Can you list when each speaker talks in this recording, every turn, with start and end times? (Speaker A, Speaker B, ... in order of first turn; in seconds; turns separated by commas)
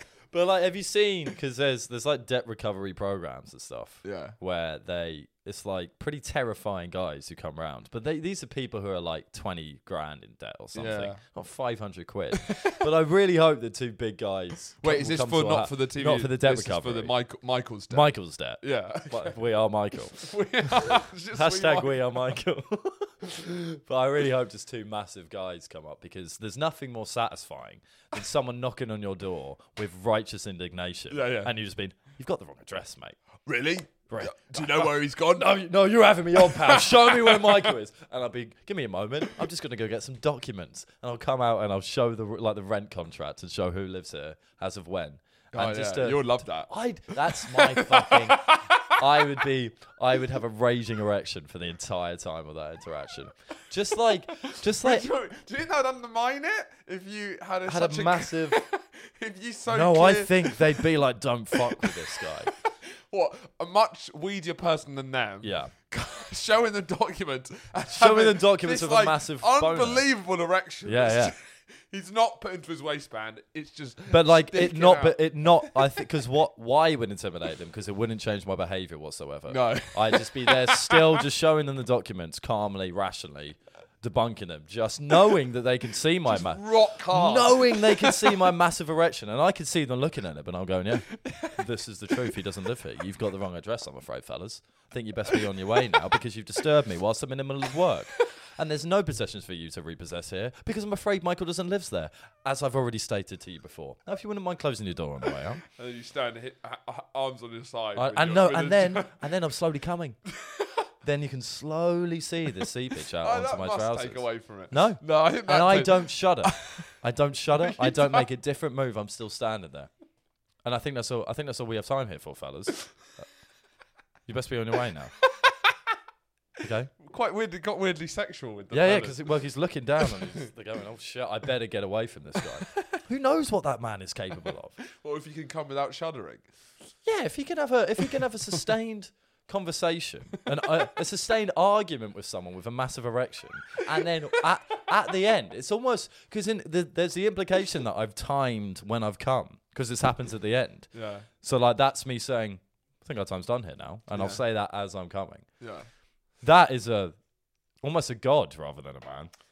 Speaker A: 0.3-17.1, Speaker B: 4.0-4.3, Speaker B: 10.7-11.2, Speaker B: 12.4-12.8, Speaker B: 14.8-19.4, Speaker A: 17.9-33.2, Speaker B: 20.1-22.3, Speaker B: 31.1-31.5, Speaker B: 33.5-35.6, Speaker A: 34.1-55.1, Speaker B: 36.3-37.8, Speaker B: 45.5-46.7, Speaker B: 47.3-49.2, Speaker B: 54.6-60.9, Speaker A: 57.7-58.6, Speaker A: 59.7-62.5, Speaker B: 61.5-76.0, Speaker A: 65.4-65.7, Speaker A: 67.9-70.1, Speaker A: 70.8-71.3, Speaker A: 74.1-105.6, Speaker B: 79.5-81.2, Speaker B: 86.3-88.4, Speaker B: 91.2-91.6, Speaker B: 105.7-109.2, Speaker A: 108.0-110.2, Speaker B: 110.3-110.9, Speaker A: 111.0-119.9, Speaker B: 113.2-116.9, Speaker B: 117.6-118.3, Speaker A: 120.6-122.9, Speaker A: 124.3-125.2, Speaker B: 125.4-125.7, Speaker A: 126.6-126.9, Speaker B: 127.0-129.3, Speaker A: 128.7-134.8, Speaker B: 130.0-130.5, Speaker B: 132.6-133.0, Speaker B: 134.9-136.5, Speaker A: 137.1-150.9, Speaker B: 138.2-138.7, Speaker B: 150.9-151.3, Speaker A: 151.4-155.5, Speaker B: 154.1-154.4, Speaker B: 155.6-155.9, Speaker A: 156.4-157.2, Speaker A: 157.8-159.3